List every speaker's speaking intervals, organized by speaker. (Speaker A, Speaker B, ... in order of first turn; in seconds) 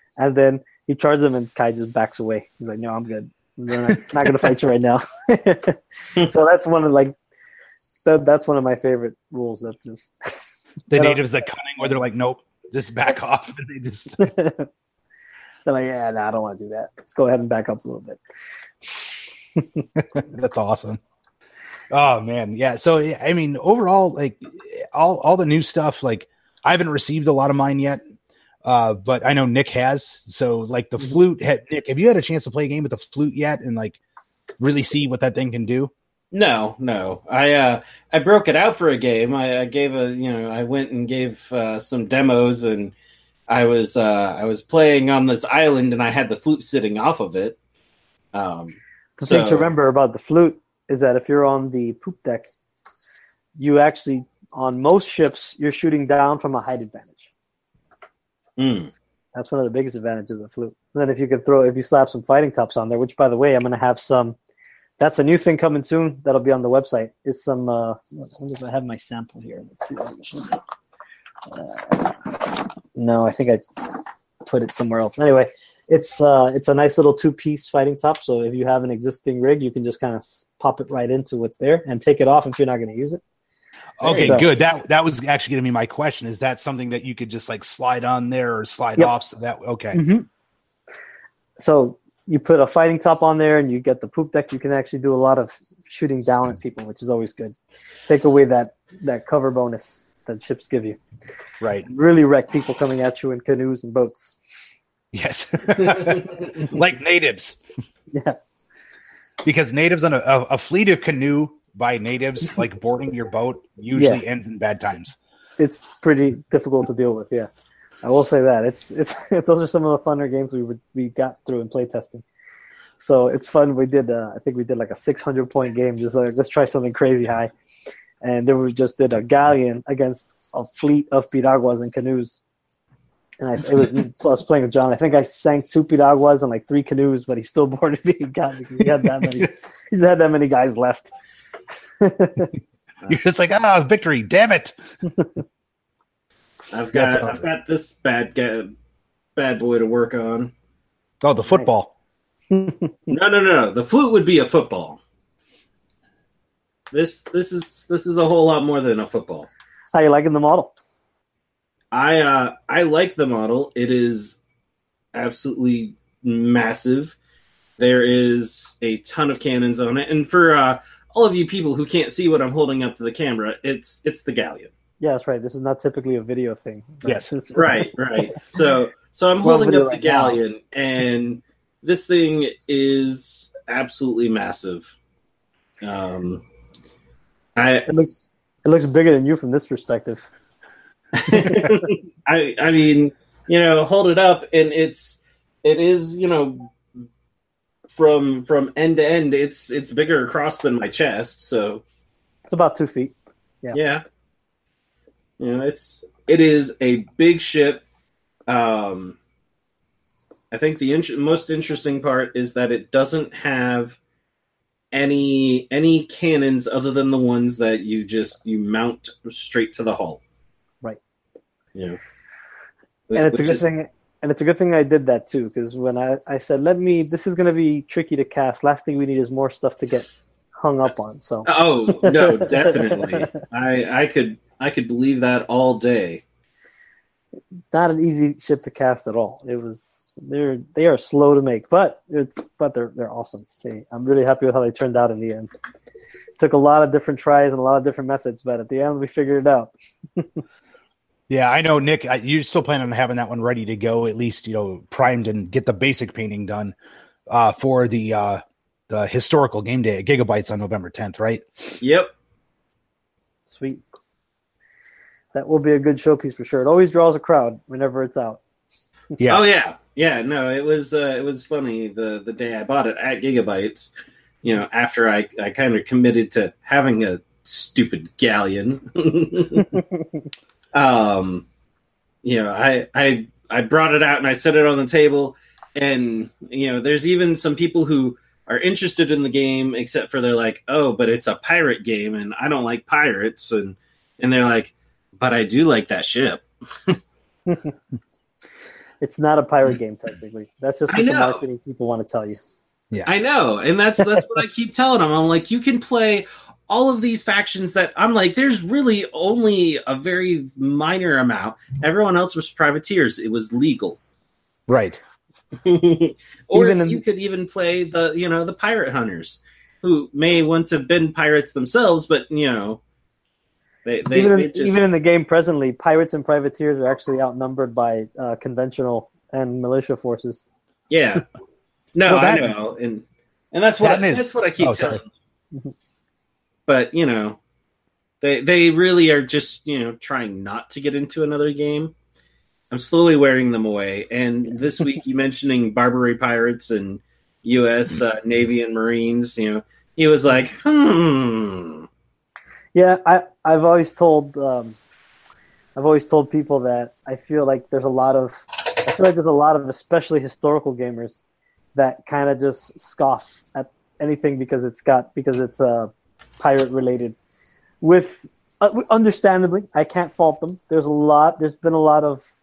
Speaker A: 0.2-7.2, 8.1-10.4, 10.9-11.2, 14.2-14.7, 15.7-18.2, 19.6-19.8, 49.2-52.5, 53.6-57.3, 59.4-64.4, 65.0-70.6, 71.5-83.2, 84.2-84.5, 89.9-90.3, 91.6-97.6, 98.1-101.0, 101.9-104.4, 108.1-108.4, 113.9-114.2, 115.6-117.5, 118.0-122.2, 123.0-127.5, 128.2-132.4, 133.4-141.1, 142.0-142.5, 152.5-153.1, 159.9-160.7, 175.0-177.9, 179.4-180.4, 187.9-190.3, 191.3-191.6, 202.5-203.8, 223.2-233.3, 237.7-245.5, 246.4-250.4, 263.5-263.8, 265.3-268.4, 297.5-297.7, 299.0-302.4, 316.5-317.0, 324.1-330.5, 352.8-354.8, 355.8-361.2, 361.8-367.2, 367.8-372.2
Speaker B: 10.9-14.3, 20.0-21.0, 21.9-28.0, 28.6-34.0, 34.6-35.9, 84.0-90.0, 101.6-101.9, 105.1-107.6, 109.4-115.2, 143.1-144.8, 146.9-147.4, 151.2-151.9, 177.0-177.3, 251.3-256.7, 257.3-261.8, 269.2-269.5, 314.7-315.0, 332.1-332.5, 333.8-335.0
Speaker C: 36.3-42.9, 43.5-47.6, 48.3-49.6, 58.6-58.9, 84.0-84.5, 146.7-148.7, 149.4-150.5, 153.1-155.0, 156.9-159.5, 161.9-164.4, 165.1-167.2, 167.8-174.7, 177.6-184.9, 185.8-186.4, 187.6-187.9, 191.2-196.7, 197.9-201.8, 203.7-204.0, 205.4-207.8, 208.5-209.2, 210.5-214.0, 214.9-220.2, 223.1-223.6, 231.4-236.2, 261.8-262.1, 269.3-273.9, 274.4-279.7, 280.7-281.4, 282.2-297.0, 300.9-301.4, 303.1-314.0, 315.6-322.8, 323.9-324.8, 330.9-331.3, 331.9-335.1, 336.7-337.4, 338.2-341.9, 342.7-351.9